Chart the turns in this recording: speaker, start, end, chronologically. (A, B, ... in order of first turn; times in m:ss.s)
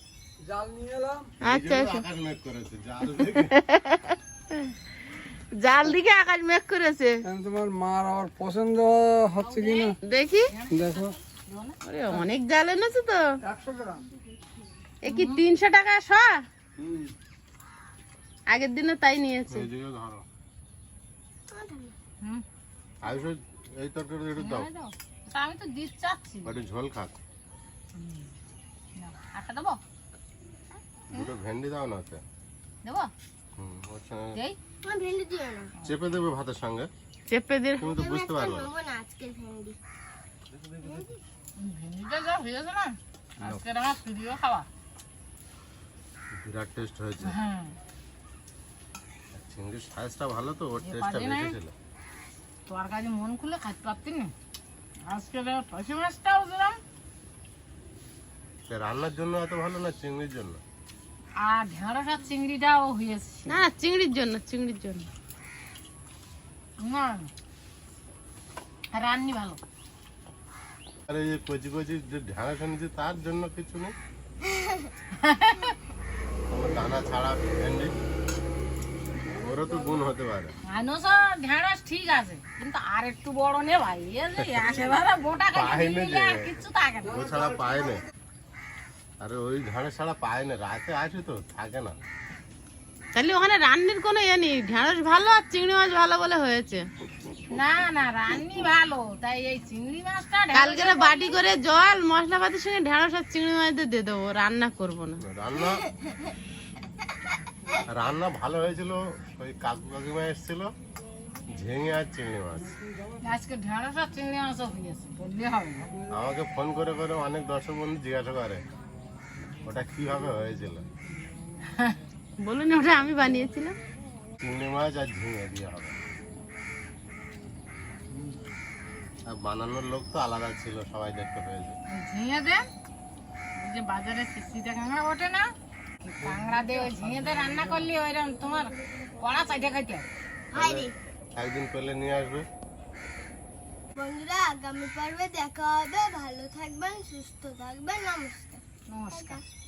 0:00.4-0:01.3 A
0:01.4-0:03.5 B
0:01.4-0:02.0 C
0:03.2-0:04.7 C
0:05.6-0:07.2 C
0:07.2-0:09.9 A
0:09.4-0:10.0 D
0:10.0-0:10.5 C
0:10.5-0:12.2 D
0:10.7-0:11.1 A
0:11.8-0:13.3 C
0:13.4-0:14.0 A
0:15.0-0:16.4 C
0:15.1-0:15.4 D
0:16.8-0:17.1 A
0:18.5-0:19.7 C
0:19.5-0:20.2 B
0:21.5-0:21.9 E
0:23.0-0:24.7 B
0:24.4-0:26.6 D
0:26.4-0:27.2 B
0:27.9-0:28.4 D
0:29.0-0:29.8 D
0:31.1-0:32.2 B
0:32.8-0:33.1 D
0:33.6-0:34.4 B
0:34.8-0:35.7 E
0:35.8-0:36.9 B
0:37.3-0:37.9 C
0:37.8-0:38.7 B
0:37.8-0:39.8 E
0:40.5-0:41.0 B
0:40.8-0:41.2 E
0:41.6-0:44.7 D
0:46.3-0:47.3 B
0:47.2-0:47.8 D
0:49.3-0:51.7 B
0:50.8-0:51.5 D
0:52.7-0:54.3 D
0:55.0-0:56.8 D
0:58.7-1:00.6 B
1:01.4-1:03.6 D
1:03.5-1:05.1 C
1:06.8-1:07.3 D
1:08.9-1:09.6 D
1:11.1-1:13.9 B
1:14.4-1:14.9 E
1:15.1-1:15.8 D
1:16.5-1:17.9 B
1:19.3-1:20.5 B
1:20.6-1:27.2 D
1:25.5-1:26.6 B
1:27.1-1:28.0 B
1:29.2-1:32.0 B
1:33.1-1:36.8 C
1:37.5-1:41.3 D
1:40.5-1:45.2 C
1:45.2-1:45.8 B
1:45.6-1:46.2 E
1:47.9-1:50.7 B
1:51.5-1:52.8 B
1:53.2-1:55.9 D
1:56.1-1:58.6 B
1:59.6-2:00.8 B
2:02.4-2:03.8 C
2:04.4-2:06.0 B
2:09.3-2:11.8 B
2:11.9-2:12.7 D
2:13.6-2:15.5 D
2:16.0-2:20.0 D
2:16.4-2:17.8 B
2:20.5-2:20.9 E
2:20.5-2:22.4 B
2:23.9-2:29.4 E
2:28.9-2:29.4 D